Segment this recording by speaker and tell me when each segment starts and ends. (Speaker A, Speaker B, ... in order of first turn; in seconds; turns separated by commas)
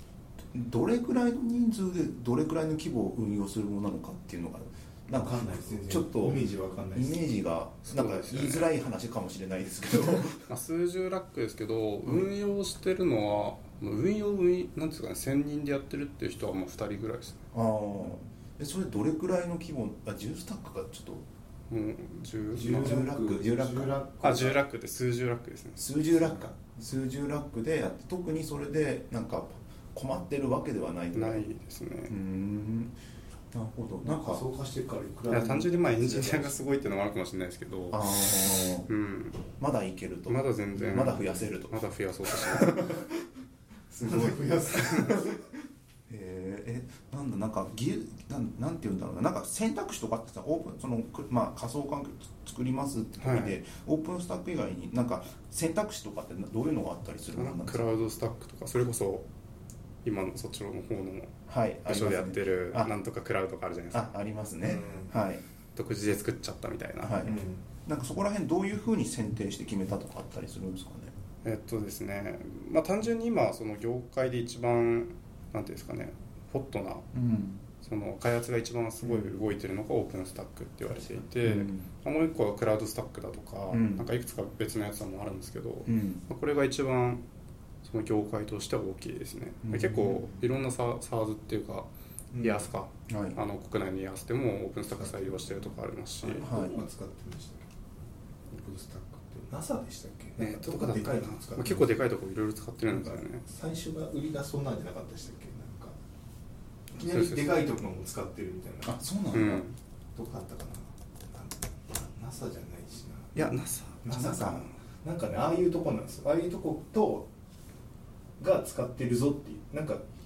Speaker A: 0.5-10.5, Speaker B: 5.1-7.3, Speaker C: 7.8-8.7, Speaker C: 10.4-17.4, Speaker A: 12.0-12.3, Speaker A: 17.5-21.2, Speaker C: 21.7-23.1, Speaker B: 22.5-24.6, Speaker A: 22.7-23.9, Speaker C: 24.2-25.9, Speaker A: 25.8-31.4, Speaker C: 31.1-32.1, Speaker A: 32.1-32.9, Speaker A: 33.5-34.4, Speaker B: 34.0-36.8, Speaker C: 35.3-38.1, Speaker A: 37.9-38.9, Speaker C: 38.9-39.4, Speaker A: 39.6-43.1, Speaker C: 40.3-42.8, Speaker B: 41.0-41.2, Speaker A: 43.9-45.4, Speaker B: 44.0-45.3, Speaker A: 46.1-57.8, Speaker C: 53.2-53.6, Speaker C: 57.3-59.3, Speaker C: 60.0-61.3, Speaker A: 61.5-62.9, Speaker C: 61.9-64.1, Speaker A: 63.9-65.4, Speaker B: 64.6-65.1, Speaker C: 65.7-67.3, Speaker A: 67.0-71.1, Speaker B: 67.2-67.6, Speaker C: 71.4-77.0, Speaker A: 77.1-77.6, Speaker C: 77.8-87.2, Speaker A: 79.0-79.4, Speaker A: 81.4-81.9, Speaker A: 83.7-84.1, Speaker A: 85.8-86.2, Speaker C: 87.8-91.9, Speaker A: 89.6-90.4, Speaker B: 92.3-92.7, Speaker C: 92.4-96.5, Speaker A: 93.1-93.4, Speaker B: 94.8-97.7, Speaker A: 96.4-96.7, Speaker B: 98.5-101.9, Speaker C: 100.4-103.4, Speaker B: 102.9-106.0, Speaker B: 106.9-109.0, Speaker C: 107.0-107.7, Speaker A: 108.8-109.6, Speaker C: 109.3-109.8, Speaker B: 110.1-117.3, Speaker C: 113.3-114.7, Speaker A: 114.1-114.7, Speaker B: 118.4-120.0